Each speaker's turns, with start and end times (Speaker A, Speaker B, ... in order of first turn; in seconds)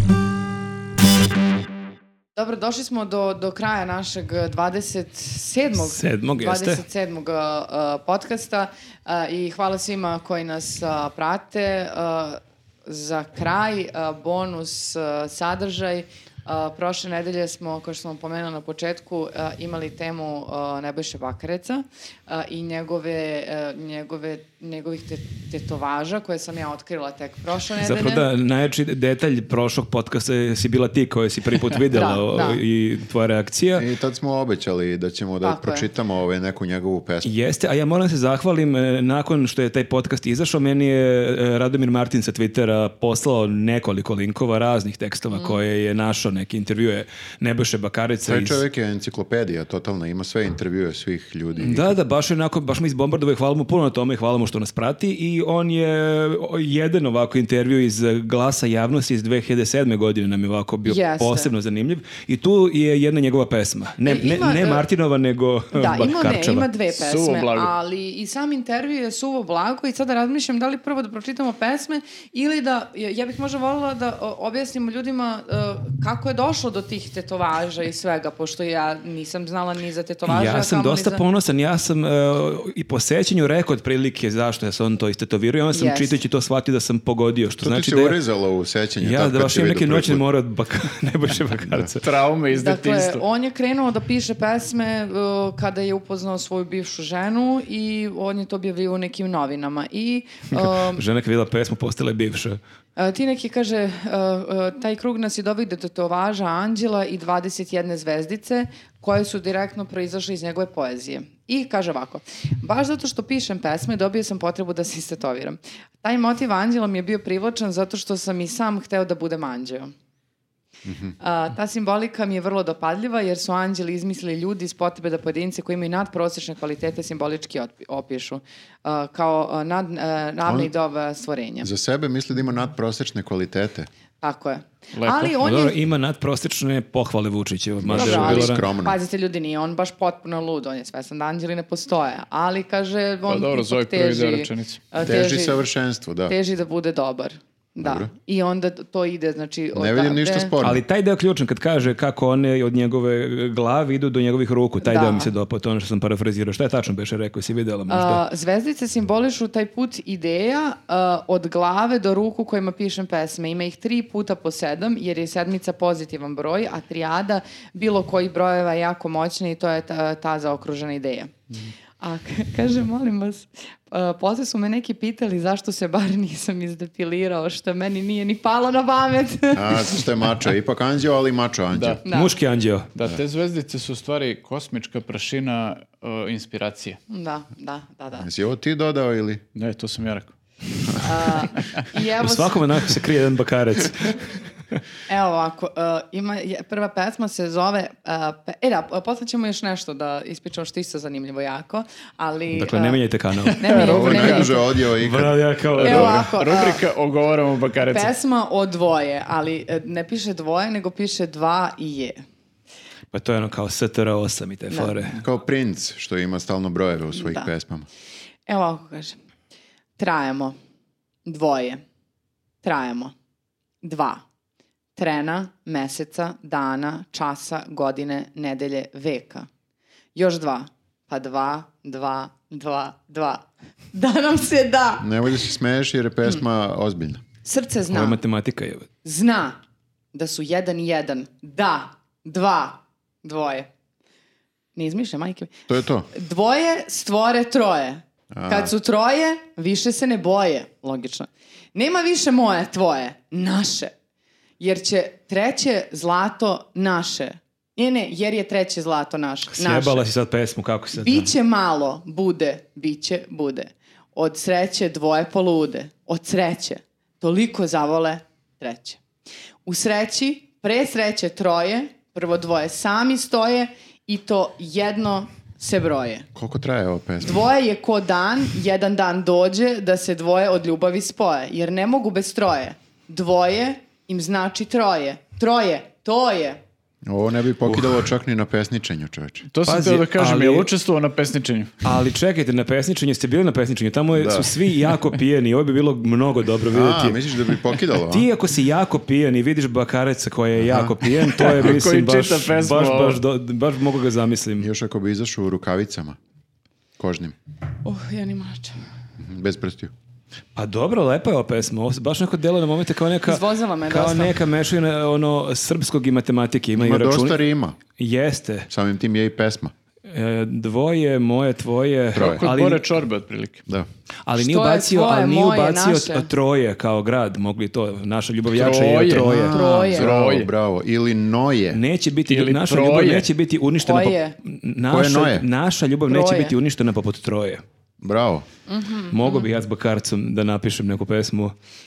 Speaker A: 2.3-28.3, 31.9-32.6, 35.4-35.9, 45.3-45.6, 60.8-61.5, 64.0-64.8, 65.7-81.2, 85.7-86.2, 92.5-101.0, 103.0-119.9, 121.2-131.7, 134.2-135.8, 137.9-145.6, 146.3-150.5, 154.8-155.3, 157.9-171.3, 172.0-180.0, 182.0-182.3, 187.1-188.3, 191.0-192.6, 195.1-203.0, 203.5-204.7, 205.8-206.8, 207.9-212.2, 217.1-217.5, 218.5-219.2, 220.0-220.6, 221.2-221.8, 222.6-223.1, 223.8-224.2, 224.9-229.5, 230.1-235.1, 237.4-238.2, 239.0-239.6, 240.1-243.7, 244.8-245.5, 246.1-253.9, 254.6-260.0, 260.9-269.0, 269.6-276.3, 277.2-286.6, 307.8-308.7, 313.2-314.3, 324.4-326.3, 329.5-330.1, 333.8-334.4, 336.1-336.5, 338.7-339.4
Speaker B: 5.9-6.8, 27.8-33.9, 37.2-48.6, 51.6-66.7, 80.3-88.2, 89.0-92.0, 100.5-102.6, 135.4-138.6, 150.6-158.2, 182.1-182.9, 192.2-194.2, 202.5-203.9, 204.9-206.1, 213.1-215.2, 237.9-238.9, 259.6-261.3, 289.6-290.7, 291.8-297.2, 298.1-304.7, 310.6-317.4, 318.0-318.7, 320.1-322.8, 324.2-329.6, 331.7-337.6, 339.1-341.5
Speaker C: 33.8-37.3, 48.2-51.9, 87.6-90.2, 120.8-121.1, 130.4-130.7, 131.6-133.9, 137.8-139.0, 145.0-146.3, 147.8-148.1, 149.7-150.8, 179.5-182.0, 188.2-189.4, 203.9-206.3, 215.1-217.9, 235.0-237.2, 245.7-246.1, 248.3-248.7, 276.3-277.4, 287.1-289.4, 294.1-294.5, 296.7-298.3, 300.6-301.0, 304.6-306.2, 307.0-307.3, 309.2-309.9, 316.8-317.8, 318.7-319.7, 322.1-322.4, 329.1-331.8, 334.9-335.4, 338.0-338.4
Speaker D: 66.9-67.7, 92.0-93.2, 134.9-135.3, 143.3-144.8, 181.7-182.0, 182.9-187.0, 189.5-190.3, 203.5-204.6, 205.7-208.1, 289.5-291.8, 301.5-303.2, 322.2-323.6, 328.5-330.5, 332.3-333.3